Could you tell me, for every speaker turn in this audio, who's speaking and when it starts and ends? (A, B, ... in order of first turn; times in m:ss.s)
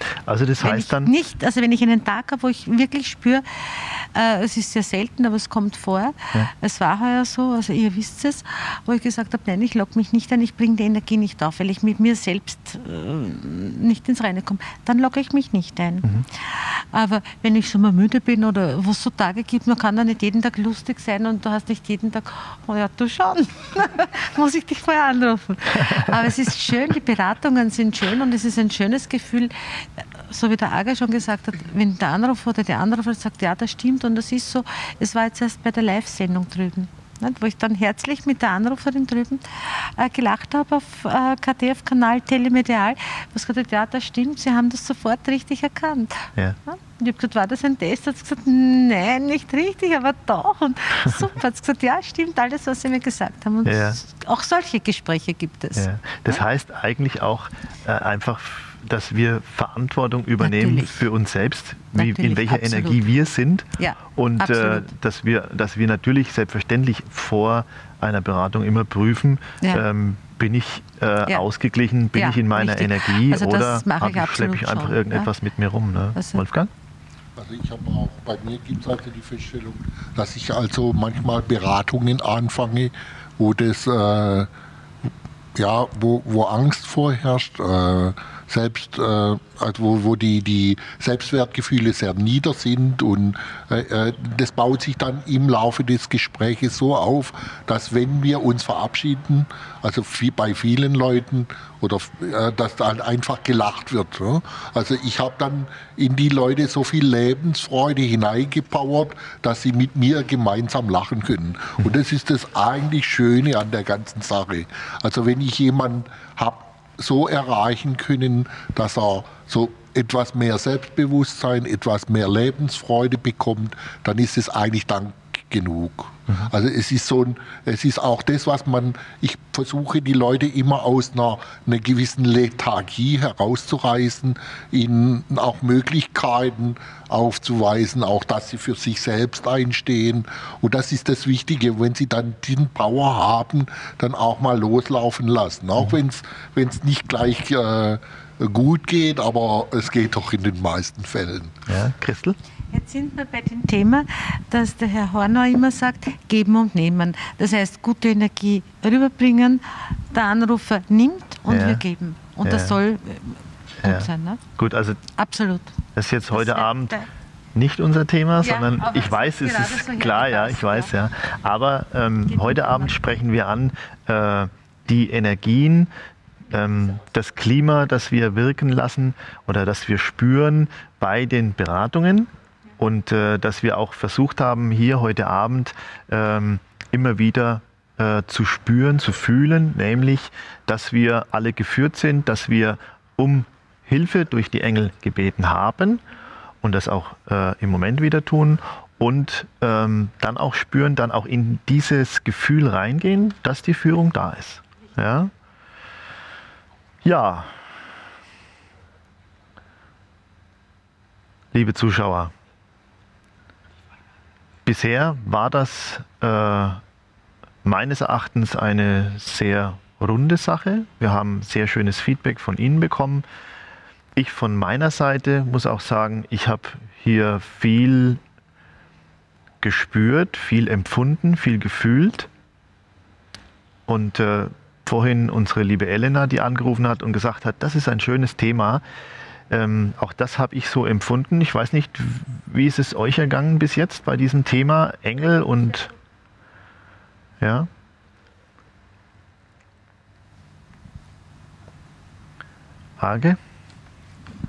0:00.3-0:01.1 A
0:00.6-0:56.4 B
0:53.6-0:54.0 A
0:55.8-1:16.7 A
1:00.4-1:01.1 B
1:01.9-1:03.1 B
1:03.8-1:04.9 B
1:12.1-1:15.3 B
1:16.2-1:16.4 B
1:17.4-1:24.5 C
1:25.6-2:31.6 C
2:31.7-2:32.4 A
2:32.7-2:44.4 B
2:41.5-2:41.8 A
2:42.4-2:42.8 A
2:43.8-2:45.0 A
2:45.2-2:45.8 B
2:46.0-2:47.0 A
2:46.3-2:47.1 B
2:47.6-2:55.9 A
2:48.4-2:50.9 B
2:52.3-2:53.0 B
2:56.5-3:16.0 A
3:16.6-3:25.3 A
3:27.0-3:27.6 A
3:31.5-3:32.3 A
3:34.7-3:36.8 A
3:37.6-3:43.2 A
3:44.2-3:48.2 A
3:49.6-3:52.3 A
3:53.9-3:58.8 A
3:59.5-4:05.9 A
4:07.4-4:07.7 A
4:13.0-4:13.4 A